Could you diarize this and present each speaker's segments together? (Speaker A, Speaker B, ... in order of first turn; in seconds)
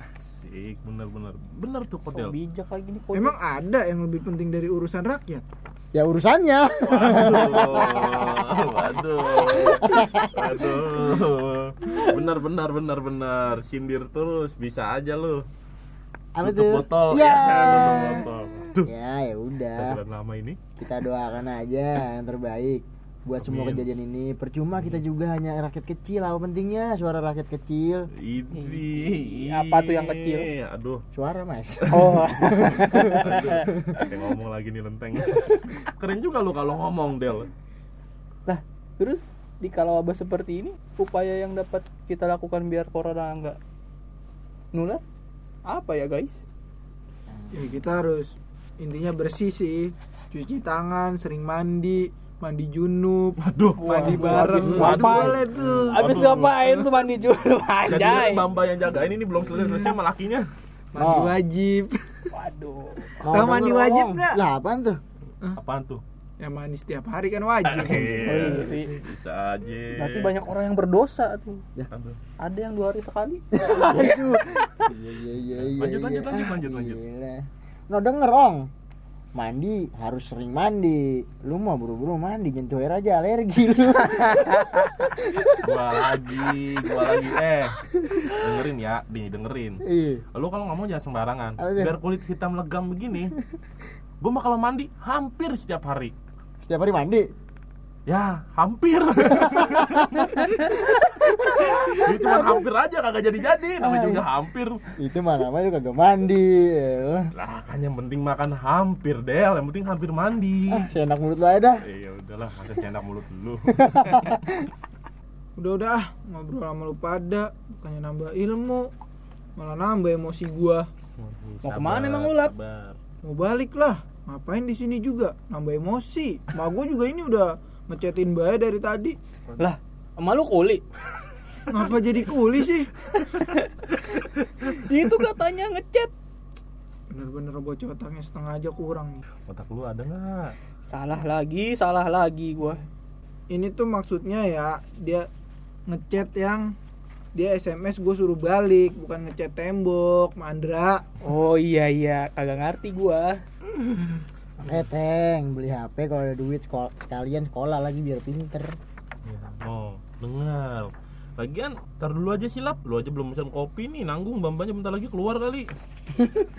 Speaker A: 0.2-2.3, 6.8-15.4, 16.4-18.9, 19.8-20.6, 23.4-23.8, 28.1-31.0, 31.9-37.5, 53.4-56.9, 57.9-60.5, 65.5-66.0, 67.6-70.4, 71.9-72.2, 73.9-74.2, 75.4-77.0, 85.6-89.8, 90.3-93.3, 94.2-96.1, 98.1-104.8, 107.3-110.8, 111.8-114.3, 121.2-123.0, 139.5-140.5, 159.2-165.7
Speaker B: 2.1-3.3, 28.5-30.5, 31.9-33.7, 38.5-43.6, 44.7-45.0, 45.7-46.4, 53.8-58.5, 62.3-63.1, 68.2-68.9, 69.9-71.6, 72.4-74.2, 84.2-84.9, 121.6-122.5, 129.6-130.8, 133.1-136.1, 140.9-142.8, 151.2-153.4
Speaker C: 3.1-5.4, 47.5-56.0, 59.5-59.9, 60.9-62.3, 63.2-64.4, 66.4-68.3, 115.6-118.9, 119.6-120.9, 123.2-129.2, 131.7-132.9, 137.1-139.2, 143.5-145.3, 145.9-146.7, 147.3-151.1
Speaker D: 5.9-8.8, 9.8-10.6, 16.4-18.3, 18.8-20.0, 20.8-28.1, 31.1-34.0, 47.3-47.7, 55.5-55.9, 61.0-61.4, 63.2-65.0, 67.9-68.7, 73.5-78.7, 79.3-85.6, 89.8-90.2, 91.6-91.9, 96.6-97.3, 100.0-100.4, 101.0-102.6, 103.8-104.2, 105.0-107.3, 110.7-111.8, 113.7-114.6, 154.6-158.8, 166.2-166.4